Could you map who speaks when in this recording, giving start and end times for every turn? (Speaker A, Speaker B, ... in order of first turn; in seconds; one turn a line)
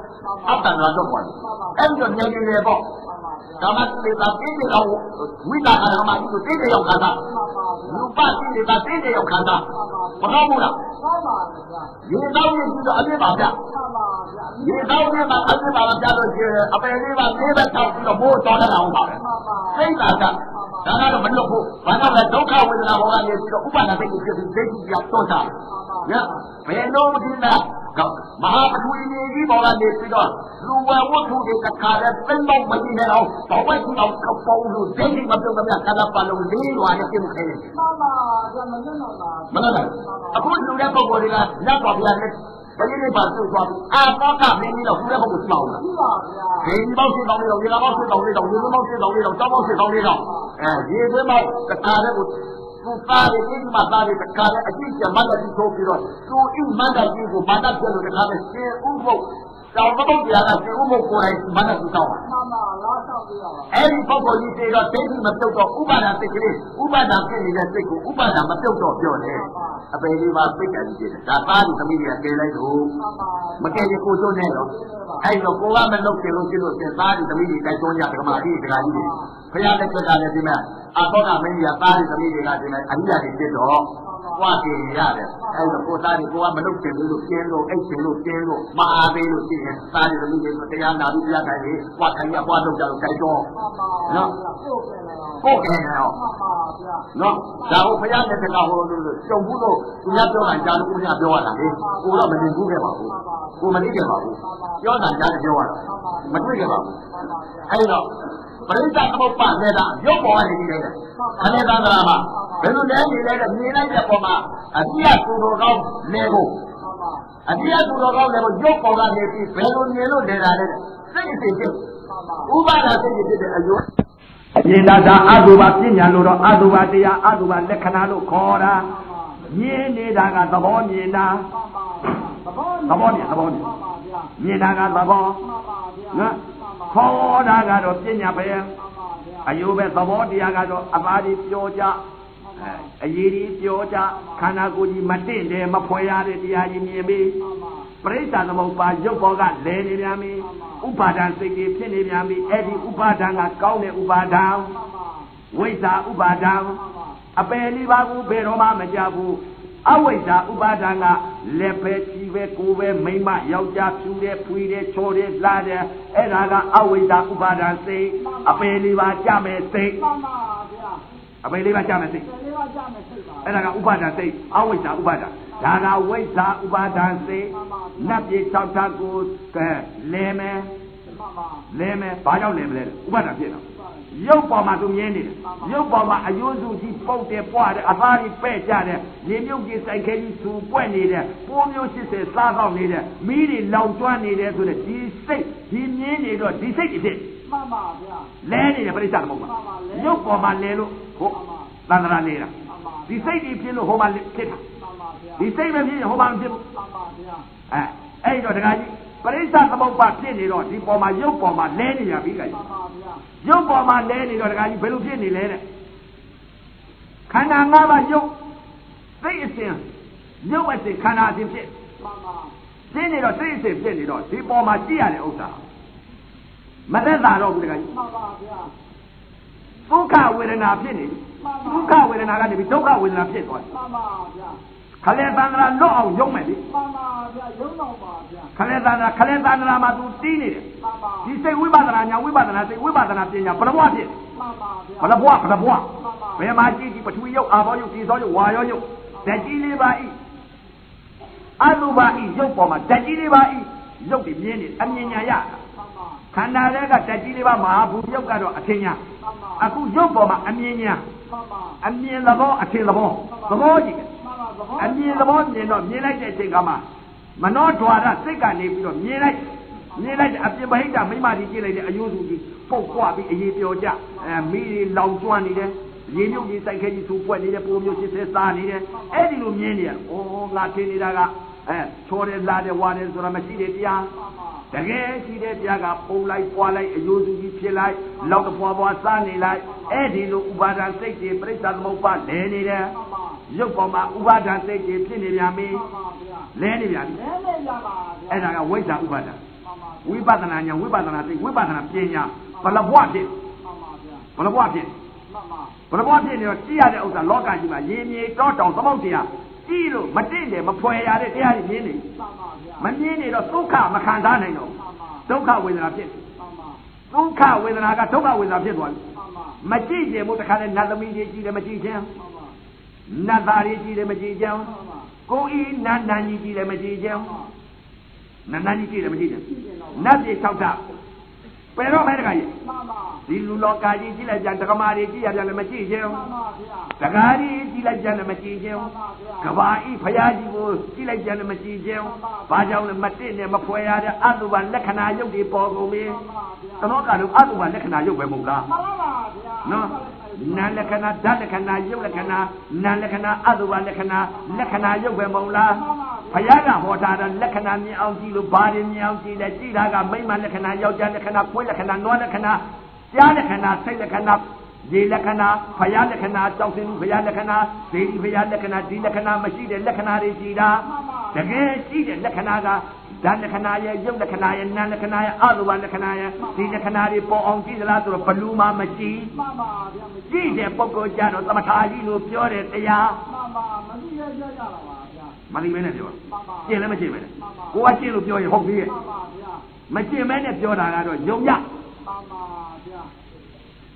Speaker A: 0.2-0.7
Speaker B: 0.4-2.9
Speaker A: 1.4-2.1
Speaker A: 3.0-3.7
Speaker B: 3.6-7.2
Speaker A: 7.2-8.1
Speaker B: 7.9-9.6
Speaker A: 9.7-11.9
Speaker B: 10.2-10.8
Speaker B: 12.0-13.5
Speaker A: 13.6-15.6
Speaker B: 14.6-19.1
Speaker A: 19.1-21.0
Speaker B: 19.7-25.5
Speaker A: 25.6-26.4
Speaker B: 26.1-37.7
Speaker A: 37.7-40.6
Speaker B: 39.5-45.8
Speaker A: 45.8-46.7
Speaker B: 46.6-62.2
Speaker A: 47.9-48.7
Speaker A: 49.4-50.5
Speaker A: 62.2-63.8
Speaker B: 63.7-72.9
Speaker A: 69.3-69.8
Speaker A: 73.0-74.0
Speaker B: 73.6-74.7
Speaker A: 74.6-75.3
Speaker B: 75.2-93.5
Speaker A: 78.3-79.3
Speaker A: 84.0-84.6
Speaker A: 85.4-85.8
Speaker A: 93.5-95.5
Speaker B: 95.4-96.1
Speaker A: 96.1-98.0
Speaker B: 97.1-106.9
Speaker A: 100.1-100.8
Speaker A: 101.6-103.8
Speaker A: 104.4-104.8
Speaker A: 105.8-107.7
Speaker B: 107.7-108.0
Speaker B: 108.7-116.6
Speaker A: 111.2-112.8
Speaker A: 116.8-117.3
Speaker B: 117.5-121.8
Speaker A: 122.0-122.5
Speaker B: 122.5-123.8
Speaker C: 124.6-128.9
Speaker A: 128.8-129.4
Speaker C: 129.5-131.5
Speaker A: 131.5-134.3
Speaker C: 132.9-133.6
Speaker C: 134.4-135.4
Speaker A: 135.4-137.0
Speaker C: 136.1-136.4
Speaker C: 136.9-138.7
Speaker A: 138.8-139.5
Speaker C: 139.4-142.0
Speaker A: 142.4-142.9
Speaker C: 142.6-147.4
Speaker A: 147.4-147.9
Speaker C: 148.0-154.7
Speaker A: 150.4-150.8
Speaker A: 152.5-152.9
Speaker A: 154.7-155.3
Speaker C: 155.5-156.8
Speaker A: 156.8-157.2
Speaker C: 157.3-170.0
Speaker A: 168.2-168.7
Speaker A: 169.9-171.0
Speaker C: 171.4-172.3
Speaker A: 172.2-173.6
Speaker C: 173.4-180.7
Speaker A: 177.5-178.3
Speaker A: 181.1-181.7
Speaker C: 181.7-197.3
Speaker A: 183.7-184.1
Speaker A: 185.4-185.9
Speaker A: 197.4-198.3
Speaker C: 198.4-201.3
Speaker A: 199.4-200.5
Speaker A: 201.3-201.7
Speaker C: 201.9-202.5
Speaker A: 202.6-203.3
Speaker C: 203.1-204.6
Speaker A: 204.8-205.5
Speaker C: 205.4-206.6
Speaker A: 206.6-207.4
Speaker C: 207.7-212.6
Speaker A: 212.5-213.2
Speaker C: 213.4-215.6
Speaker C: 217.3-218.3
Speaker C: 219.2-219.8
Speaker C: 220.4-221.7
Speaker A: 222.0-222.5
Speaker C: 222.9-225.6
Speaker C: 226.9-227.9
Speaker A: 227.9-228.7
Speaker C: 229.9-233.6
Speaker A: 231.4-232.0
Speaker A: 233.7-234.6
Speaker C: 235.0-236.6
Speaker A: 236.7-238.5
Speaker C: 238.6-240.7
Speaker A: 240.8-241.3
Speaker C: 241.2-244.1
Speaker A: 244.3-245.3
Speaker C: 245.0-250.1
Speaker A: 245.9-246.4
Speaker A: 249.2-249.5
Speaker C: 251.6-255.6
Speaker A: 254.8-255.2
Speaker A: 255.7-256.3
Speaker C: 256.3-259.0
Speaker A: 259.2-259.7
Speaker C: 259.6-261.0
Speaker A: 261.3-261.8
Speaker C: 261.8-264.1
Speaker A: 263.3-265.4
Speaker C: 264.8-266.8
Speaker C: 267.4-269.4
Speaker C: 269.9-284.1
Speaker A: 284.1-284.7
Speaker C: 284.7-292.9
Speaker A: 292.9-293.4
Speaker C: 293.5-295.8
Speaker A: 295.7-296.5
Speaker C: 296.5-297.2
Speaker A: 297.1-298.5
Speaker C: 298.3-299.4
Speaker A: 299.6-300.2
Speaker C: 300.0-303.3
Speaker A: 302.6-302.9
Speaker A: 303.6-304.3
Speaker C: 304.4-304.9
Speaker A: 305.3-305.8
Speaker C: 305.9-312.1
Speaker A: 312.1-312.9
Speaker C: 312.8-314.8
Speaker A: 314.8-315.3
Speaker C: 315.3-316.2
Speaker A: 316.4-316.8
Speaker C: 317.1-319.0
Speaker A: 319.1-319.6
Speaker C: 319.6-322.1
Speaker A: 322.1-322.5
Speaker C: 323.1-324.7
Speaker A: 324.6-325.1
Speaker C: 325.3-327.3
Speaker A: 327.1-327.5
Speaker C: 328.5-330.8
Speaker A: 329.5-330.1
Speaker C: 331.8-332.5
Speaker A: 332.6-333.2
Speaker C: 333.3-336.2
Speaker A: 336.1-336.9
Speaker C: 337.0-346.2
Speaker A: 338.7-339.6
Speaker A: 342.0-342.7
Speaker A: 346.1-346.9
Speaker C: 346.8-348.7
Speaker A: 348.6-350.9
Speaker C: 349.6-379.3
Speaker A: 355.7-356.6
Speaker A: 370.8-371.7
Speaker A: 376.4-376.8
Speaker A: 379.3-380.6
Speaker C: 380.3-383.2
Speaker A: 383.2-385.4
Speaker C: 385.5-388.9
Speaker A: 386.3-387.8
Speaker A: 388.8-389.6
Speaker C: 389.9-391.6
Speaker A: 392.0-393.1